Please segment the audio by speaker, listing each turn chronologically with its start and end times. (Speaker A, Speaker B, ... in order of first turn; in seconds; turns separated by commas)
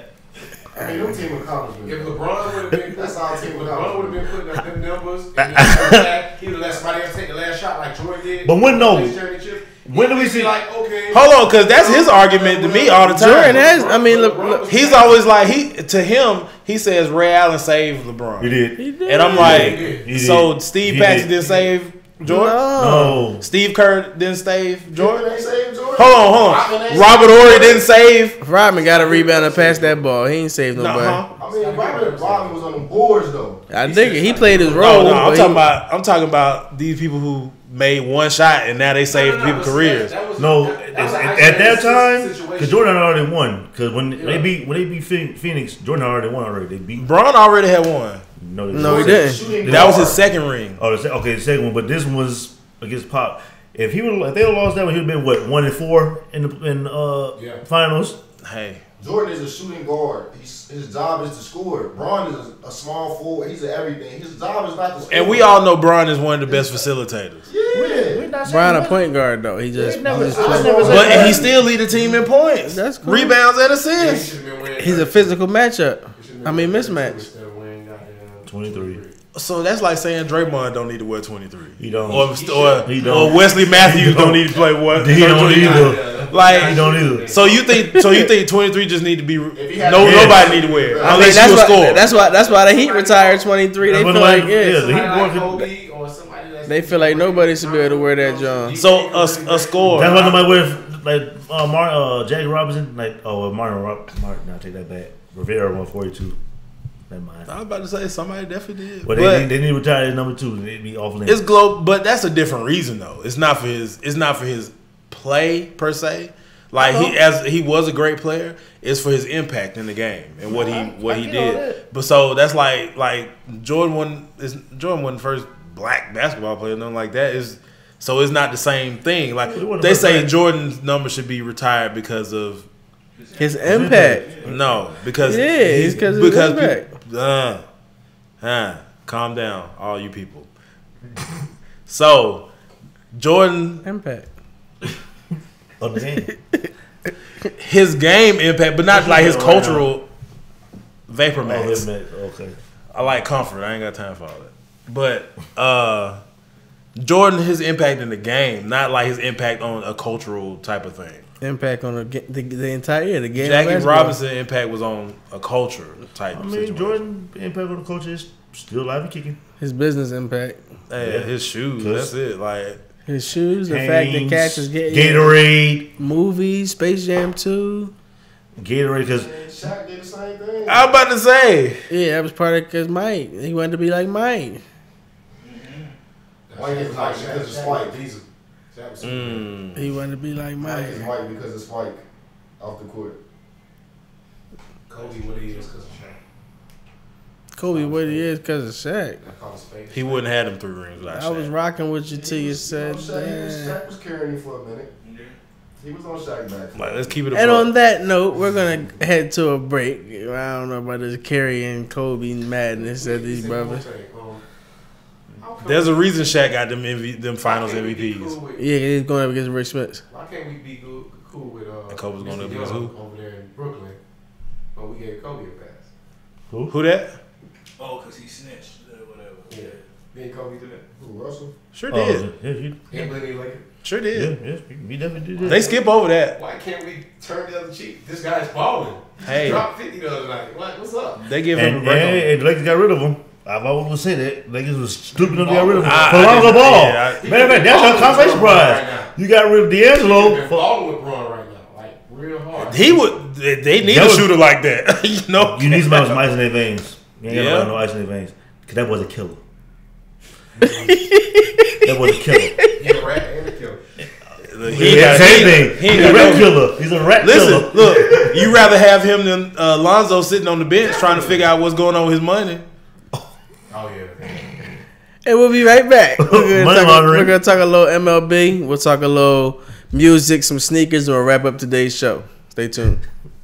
Speaker A: 0.8-2.2, Speaker B: 1.8-15.2, Speaker A: 2.9-4.3, Speaker C: 5.4-6.1, Speaker C: 8.4-9.2, Speaker C: 9.8-10.5, Speaker D: 11.1-14.0, Speaker E: 13.2-14.7, Speaker D: 14.7-18.6, Speaker C: 18.4-18.8, Speaker E: 18.8-19.6, Speaker D: 19.1-22.6, Speaker C: 19.4-21.3, Speaker B: 19.5-20.1, Speaker B: 21.3-21.7, Speaker E: 22.2-23.2, Speaker C: 22.8-23.4, Speaker D: 23.4-25.2, Speaker A: 24.9-27.8, Speaker D: 25.9-28.4, Speaker E: 28.4-31.2, Speaker A: 29.1-29.9, Speaker D: 30.7-31.3, Speaker A: 31.4-33.6, Speaker B: 31.4-32.8, Speaker E: 33.7-35.6, Speaker B: 33.8-35.1, Speaker D: 34.8-40.2, Speaker B: 39.1-43.0, Speaker C: 40.4-47.1, Speaker B: 44.2-44.6, Speaker D: 47.0-48.2, Speaker C: 48.4-50.2, Speaker E: 48.7-49.4, Speaker A: 48.8-50.2, Speaker D: 49.6-50.8, Speaker C: 50.8-58.2, Speaker B: 57.4-57.6, Speaker D: 58.4-58.8, Speaker A: 59.0-65.6, Speaker D: 65.1-67.5, Speaker A: 67.5-68.3, Speaker C: 67.7-69.1, Speaker E: 68.5-71.4, Speaker C: 69.8-71.6, Speaker A: 70.0-71.5, Speaker D: 70.9-74.3, Speaker E: 72.7-73.4, Speaker B: 73.9-75.4, Speaker E: 74.8-77.3, Speaker B: 76.2-79.2, Speaker C: 78.5-79.0, Speaker D: 79.3-92.1, Speaker C: 81.8-87.3, Speaker B: 82.1-84.0, Speaker B: 85.2-87.7, Speaker E: 87.8-88.3, Speaker A: 89.5-91.4, Speaker C: 90.0-90.5, Speaker E: 91.0-95.0, Speaker B: 91.3-93.5, Speaker C: 93.8-95.7, Speaker B: 94.6-100.5, Speaker E: 96.7-98.8, Speaker D: 98.8-100.4, Speaker C: 99.9-106.4, Speaker C: 107.1-107.5, Speaker D: 107.5-109.5, Speaker C: 109.0-111.5, Speaker D: 111.3-132.7, Speaker C: 116.8-117.2, Speaker C: 120.5-121.8, Speaker C: 129.5-130.3, Speaker F: 133.2-135.4, Speaker E: 133.4-134.3, Speaker C: 133.7-134.8, Speaker D: 134.5-137.6, Speaker E: 135.2-136.9, Speaker D: 138.4-140.5, Speaker D: 141.9-142.5, Speaker D: 143.1-143.8, Speaker E: 143.8-144.3, Speaker C: 145.8-146.3, Speaker E: 146.3-146.7, Speaker D: 147.6-150.0, Speaker C: 148.9-149.9, Speaker D: 151.1-151.9, Speaker C: 151.4-152.6, Speaker D: 152.9-156.2, Speaker D: 157.0-161.2, Speaker E: 161.4-164.2, Speaker D: 163.4-167.0, Speaker C: 166.3-169.4, Speaker E: 169.6-170.6, Speaker D: 170.9-172.8, Speaker C: 171.0-172.1, Speaker E: 173.1-175.4, Speaker C: 173.7-175.9, Speaker E: 176.0-177.9, Speaker C: 178.6-179.3, Speaker A: 179.1-180.9, Speaker D: 180.7-181.8, Speaker E: 181.9-184.6, Speaker F: 185.4-185.9, Speaker B: 186.5-189.5, Speaker A: 186.5-188.2, Speaker D: 189.0-189.9, Speaker E: 189.8-191.1, Speaker A: 190.6-192.0, Speaker A: 192.6-193.2, Speaker B: 194.9-196.2, Speaker F: 194.9-195.7, Speaker E: 197.6-199.2, Speaker B: 197.7-198.2, Speaker B: 199.2-200.5, Speaker D: 199.9-201.5, Speaker E: 201.1-203.8, Speaker A: 202.1-204.9, Speaker F: 205.0-205.4, Speaker A: 205.8-207.2, Speaker D: 206.7-207.7, Speaker E: 207.3-213.8, Speaker B: 212.8-214.4, Speaker B: 215.4-216.5, Speaker D: 215.6-218.4, Speaker B: 217.4-218.7, Speaker E: 218.6-220.0, Speaker B: 220.1-224.0, Speaker D: 221.9-222.9, Speaker B: 224.8-225.9, Speaker D: 226.7-227.2, Speaker F: 227.8-229.8, Speaker B: 229.5-230.9, Speaker A: 231.0-231.5, Speaker D: 231.7-232.3, Speaker C: 231.9-233.1, Speaker B: 232.9-233.7, Speaker D: 233.8-234.3, Speaker C: 234.1-235.6, Speaker D: 235.4-236.4, Speaker B: 235.4-241.3, Speaker D: 239.2-239.7, Speaker D: 241.2-242.3, Speaker C: 241.5-250.7, Speaker B: 245.1-246.6, Speaker D: 245.8-247.4, Speaker B: 247.1-249.1, Speaker B: 249.8-253.2, Speaker D: 252.6-256.2, Speaker C: 253.8-254.3, Speaker C: 255.4-259.4, Speaker D: 257.3-257.8, Speaker E: 260.6-262.9, Speaker C: 261.8-262.6, Speaker B: 262.8-263.8, Speaker D: 264.5-266.5, Speaker C: 264.7-268.6, Speaker B: 265.9-266.3, Speaker D: 267.2-272.7, Speaker B: 270.8-271.5, Speaker B: 273.7-274.4, Speaker E: 275.2-283.0, Speaker C: 276.2-277.4